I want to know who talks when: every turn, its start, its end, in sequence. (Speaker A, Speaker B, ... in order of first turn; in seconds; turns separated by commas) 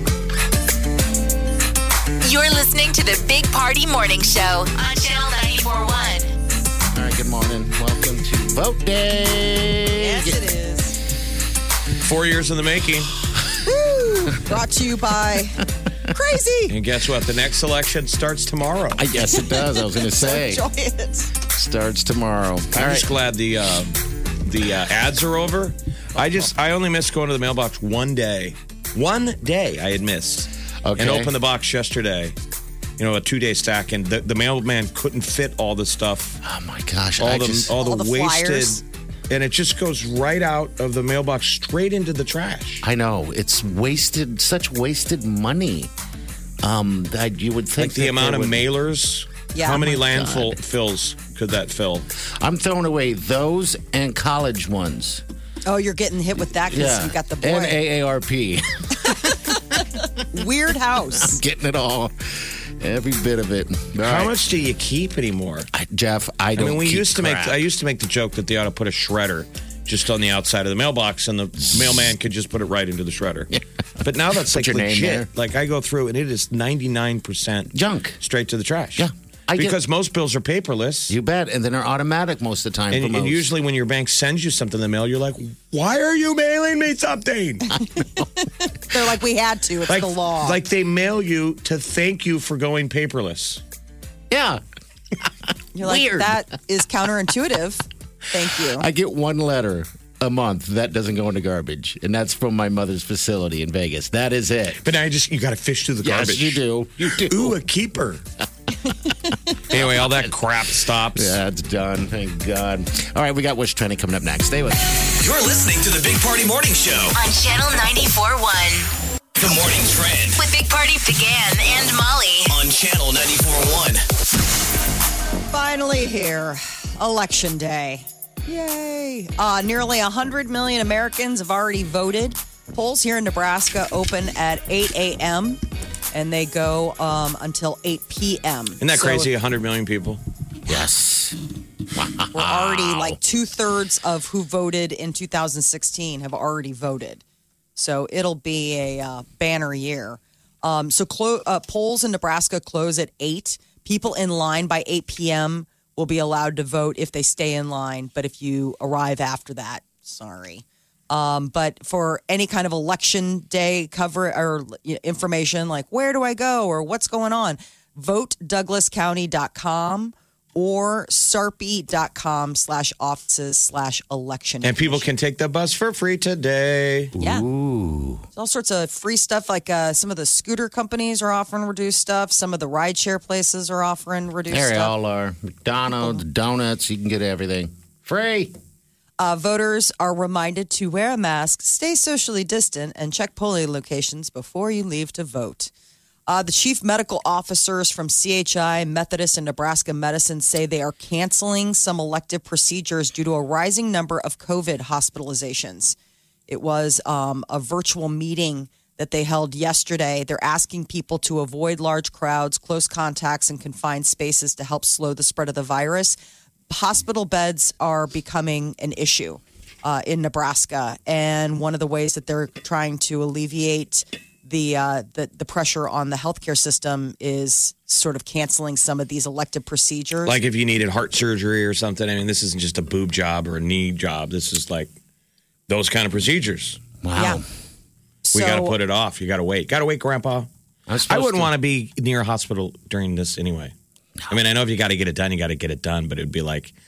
Speaker A: 2.2-6.3, Speaker B: 6.9-10.4, Speaker C: 10.0-11.0, Speaker D: 12.0-13.1, Speaker C: 13.6-16.7, Speaker D: 16.7-19.0, Speaker B: 19.0-20.6, Speaker C: 19.4-21.3, Speaker B: 21.5-23.1, Speaker D: 22.7-32.3, Speaker B: 30.8-31.3, Speaker D: 33.0-36.4, Speaker B: 36.4-37.8, Speaker D: 37.2-42.8, Speaker C: 37.8-38.8, Speaker B: 42.8-45.9, Speaker B: 46.6-48.6, Speaker D: 47.8-52.1, Speaker C: 49.5-50.0, Speaker B: 49.9-50.6, Speaker B: 52.4-55.2, Speaker C: 55.7-57.8, Speaker B: 56.7-59.5, Speaker C: 59.0-61.4, Speaker B: 61.2-64.3, Speaker D: 64.0-65.7, Speaker B: 65.7-67.6, Speaker D: 66.6-81.1, Speaker B: 71.7-72.0, Speaker B: 74.5-75.3, Speaker B: 77.7-78.2, Speaker B: 79.0-79.8, Speaker B: 81.1-83.5, Speaker D: 82.9-87.8, Speaker C: 88.0-90.6, Speaker D: 89.9-93.6, Speaker B: 94.3-94.6, Speaker C: 95.7-98.9, Speaker B: 95.8-96.4, Speaker B: 98.6-104.8, Speaker D: 104.8-106.6, Speaker B: 106.0-107.6, Speaker D: 107.2-108.2, Speaker D: 109.7-111.4, Speaker B: 109.7-110.3, Speaker B: 111.1-114.8, Speaker E: 115.2-117.2, Speaker A: 117.1-118.9, Speaker E: 119.4-120.4, Speaker A: 120.4-122.6, Speaker E: 122.5-124.0, Speaker C: 125.5-135.6, Speaker C: 136.1-139.3, Speaker D: 138.8-140.2, Speaker B: 140.7-141.4, Speaker B: 141.9-143.2, Speaker C: 142.3-147.2, Speaker C: 147.8-175.1, Speaker D: 174.6-177.1, Speaker B: 177.1-178.2, Speaker C: 177.2-177.4, Speaker C: 178.3-184.9, Speaker B: 184.5-188.5, Speaker C: 185.9-186.2, Speaker C: 189.2-195.7, Speaker C: 196.3-205.9, Speaker C: 206.5-216.2, Speaker C: 216.7-230.4, Speaker D: 230.2-234.9, Speaker D: 235.7-236.8, Speaker B: 237.0-237.4, Speaker C: 237.2-237.4, Speaker C: 238.2-238.8, Speaker D: 238.3-240.5, Speaker B: 240.9-241.5, Speaker D: 241.1-243.7, Speaker D: 244.3-246.7